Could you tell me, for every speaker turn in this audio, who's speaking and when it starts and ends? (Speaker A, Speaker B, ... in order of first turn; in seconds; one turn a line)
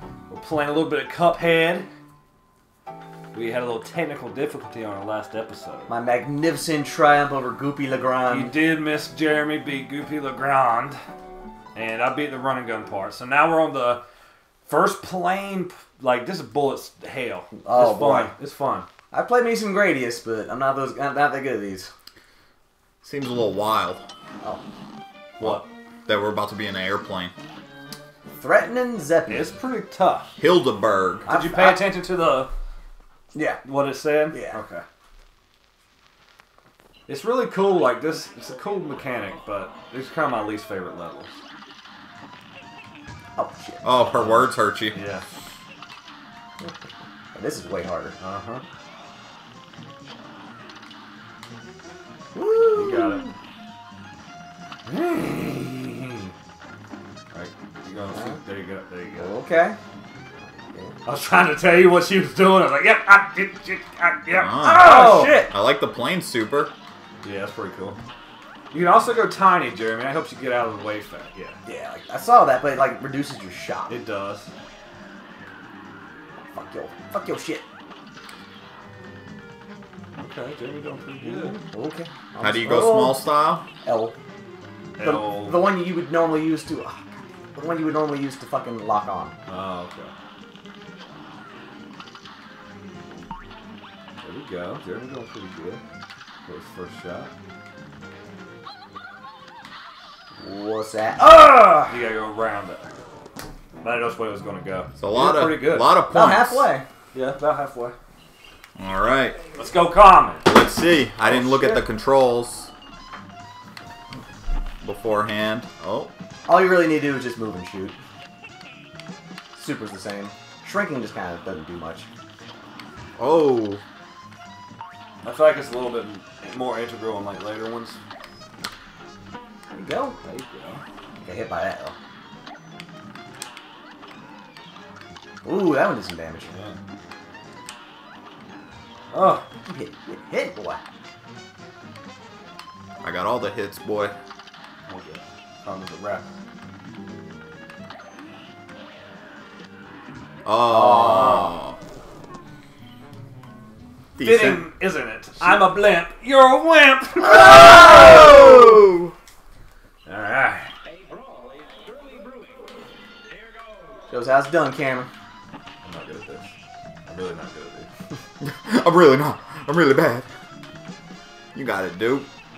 Speaker A: 0.3-1.9
Speaker A: 3.3-5.9
Speaker B: 5.9-8.6
Speaker A: 8.3-11.0
Speaker A: 11.8-14.0
Speaker A: 14.7-18.9
Speaker B: 17.6-18.3
Speaker B: 19.1-21.9
Speaker C: 23.0-24.0
Speaker A: 25.4-25.6
Speaker C: 25.4-27.3
Speaker B: 28.3-29.5
Speaker A: 29.3-30.4
Speaker C: 30.4-31.3
Speaker B: 31.3-31.9
Speaker A: 31.3-32.5
Speaker B: 33.3-33.6
Speaker A: 33.6-34.9
Speaker B: 34.3-34.6
Speaker A: 37.1-41.4
Speaker B: 43.4-44.2
Speaker C: 43.8-45.0
Speaker A: 44.1-45.3
Speaker B: 47.3-48.2
Speaker A: 48.2-48.6
Speaker B: 52.3-53.3
Speaker A: 52.7-53.3
Speaker A: 57.3-59.3
Speaker B: 58.1-58.4
Speaker B: 59.1-59.8
Speaker B: 60.7-61.0
Speaker A: 61.0-65.5
Speaker C: 64.3-66.7
Speaker B: 64.6-65.5
Speaker A: 67.2-68.0
Speaker A: 68.7-71.6
Speaker B: 71.7-74.0
Speaker A: 73.9-74.5
Speaker B: 76.5-77.7
Speaker A: 80.2-81.6
Speaker B: 81.3-83.3
Speaker C: 82.4-83.7
Speaker B: 83.8-84.2
Speaker A: 85.0-85.7
Speaker B: 85.0-87.0
Speaker B: 87.5-89.4
Speaker A: 89.5-90.1
Speaker A: 94.2-95.8
Speaker A: 96.5-97.3
Speaker B: 100.4-102.0
Speaker A: 101.9-102.9
Speaker A: 103.8-105.9
Speaker C: 105.0-106.7
Speaker B: 106.1-106.8
Speaker A: 107.1-108.0
Speaker C: 108.8-109.4
Speaker A: 109.5-110.5
Speaker C: 110.5-112.7
Speaker B: 111.2-111.8
Speaker C: 114.8-116.1
Speaker B: 116.5-118.0
Speaker B: 119.5-122.1
Speaker C: 123.2-123.8
Speaker A: 125.2-128.0
Speaker B: 129.7-130.2
Speaker A: 130.2-130.8
Speaker B: 131.2-131.9
Speaker B: 135.4-136.5
Speaker A: 136.4-136.8
Speaker A: 139.1-139.4
Speaker B: 139.7-140.8
Speaker C: 143.0-144.2
Speaker A: 144.9-146.3
Speaker C: 150.4-151.8
Speaker B: 150.6-151.6
Speaker C: 154.2-154.7
Speaker A: 154.2-158.8
Speaker B: 157.4-158.3
Speaker C: 157.6-159.1
Speaker A: 160.1-160.7
Speaker B: 164.1-165.1
Speaker A: 165.8-166.5
Speaker A: 167.1-167.9
Speaker C: 168.4-170.3
Speaker C: 171.5-172.3